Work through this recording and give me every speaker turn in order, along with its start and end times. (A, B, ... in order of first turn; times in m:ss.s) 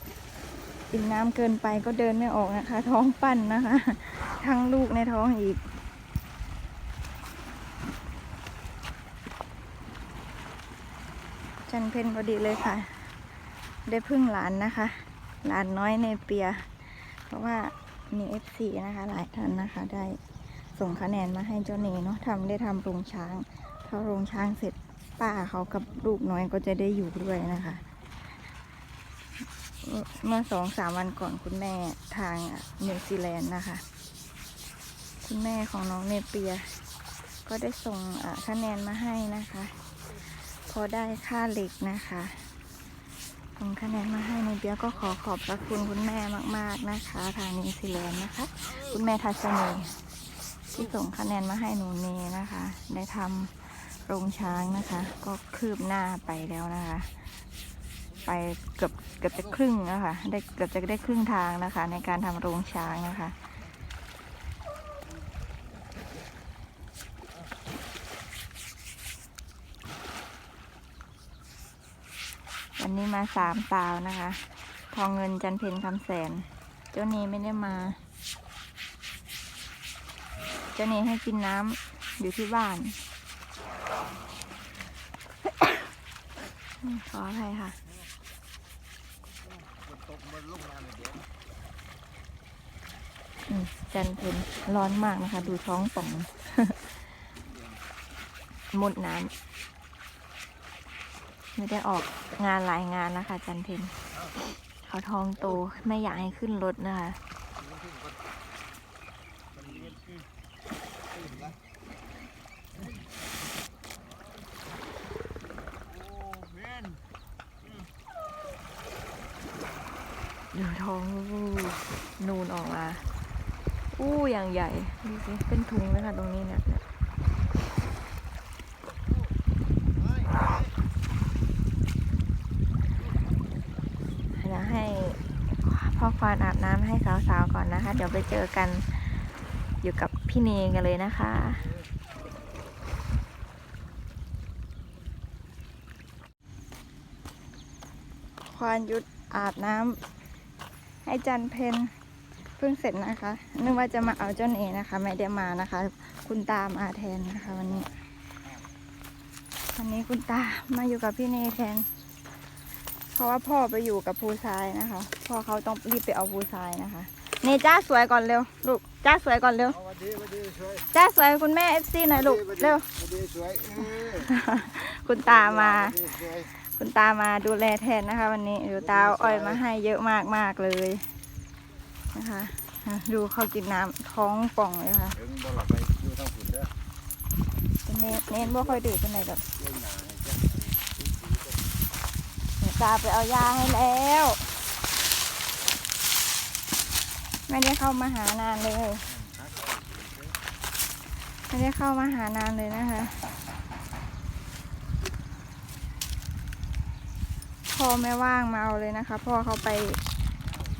0:00.9-0:05.6 A
0:11.7-0:13.1 A
0:13.8-0:20.2 A
0:20.8-0:27.8 A
0:29.8-0:33.8 A
0:35.2-0:36.8 A
0:37.4-0:39.8 A
0:40.6-0:42.5 A
0:43.6-0:50.0 A
0:50.7-0:57.1 A
0:58.2-1:03.3 A
1:12.8-1:18.0 A
1:20.7-1:23.0 A
1:26.8-1:27.8 A
1:29.9-1:31.2 B
1:33.5-1:36.8 A
1:38.7-1:39.3 A
1:41.6-1:43.9 A
1:44.8-1:47.2 A
2:00.5-2:03.0 A
2:03.9-2:06.8 A
2:14.3-2:19.2 A
2:19.8-2:21.7 A
2:28.5-2:30.0 A
2:31.0-2:31.9 A
2:32.6-2:37.9 A
2:39.8-2:41.9 A
2:43.1-2:49.8 A
2:50.0-2:50.7 B
2:50.9-2:52.9 A
2:53.1-2:53.8 B
2:53.8-3:01.0 A
3:02.1-3:05.2 A
3:05.3-3:06.7 B
3:07.8-3:09.4 A
3:09.7-3:11.4 B
3:12.6-3:14.5 A
3:17.5-3:19.0 A
3:19.3-3:20.3 B
3:21.5-3:23.2 A
3:27.7-3:30.0 A